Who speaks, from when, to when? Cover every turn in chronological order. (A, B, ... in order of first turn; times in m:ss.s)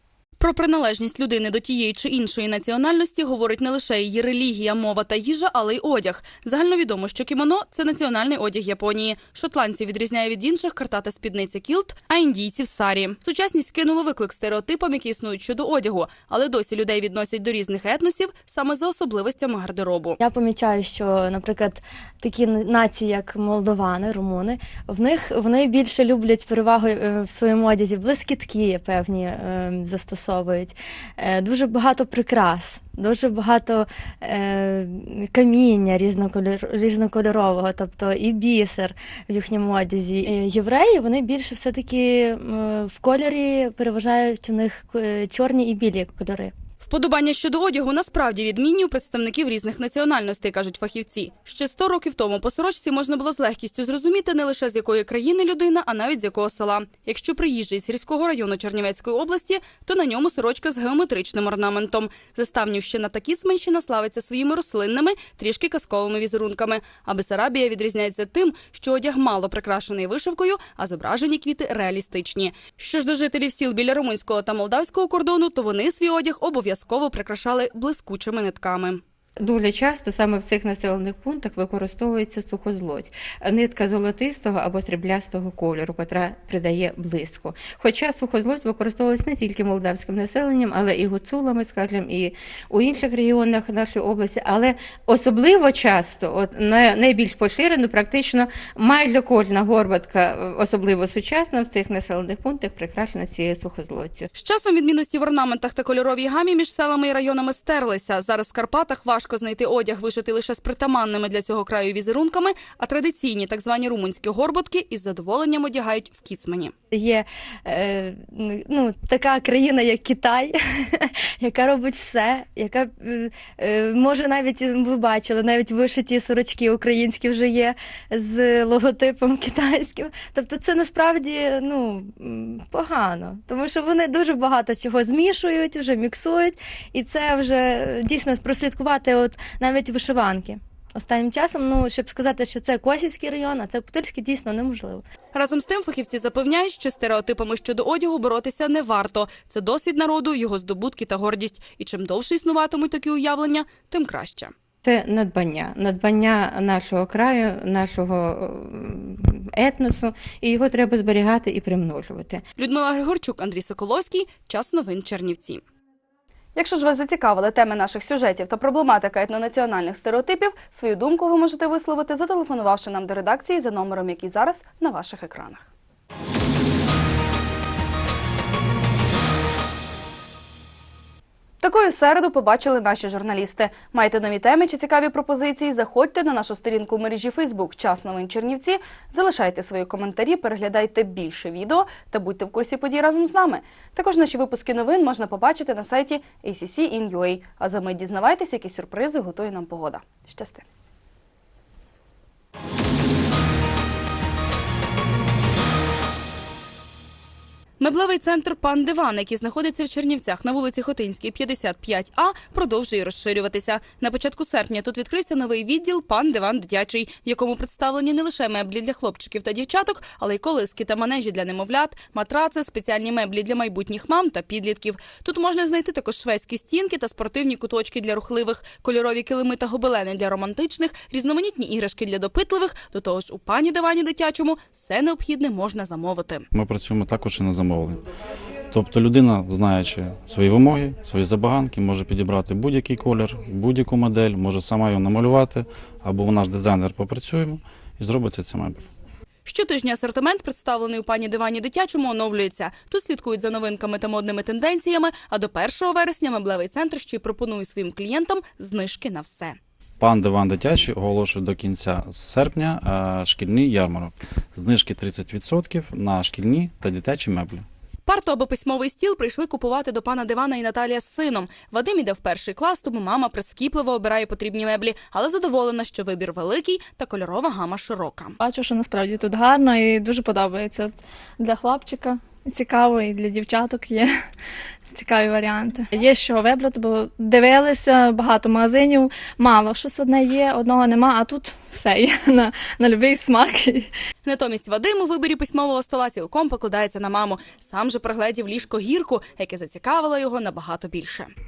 0:00.4-0:20.2 A
0:20.2-0:46.5 B
0:46.8-1:19.0 A
1:19.4-1:44.3 C
1:44.3-1:56.7 A
1:56.9-2:25.0 B
2:25.3-2:34.5 A
2:34.8-2:42.4 C
2:42.6-2:45.6 A
2:46.6-2:55.7 A
3:01.6-3:20.6 A
3:27.8-3:56.4 A
3:56.5-3:58.0 D
3:58.7-4:08.8 D
4:09.4-4:19.6 A
4:20.0-4:27.6 D
4:28.0-4:38.4 A
4:38.4-4:44.2 E
4:44.9-4:53.9 E
4:54.2-5:01.3 A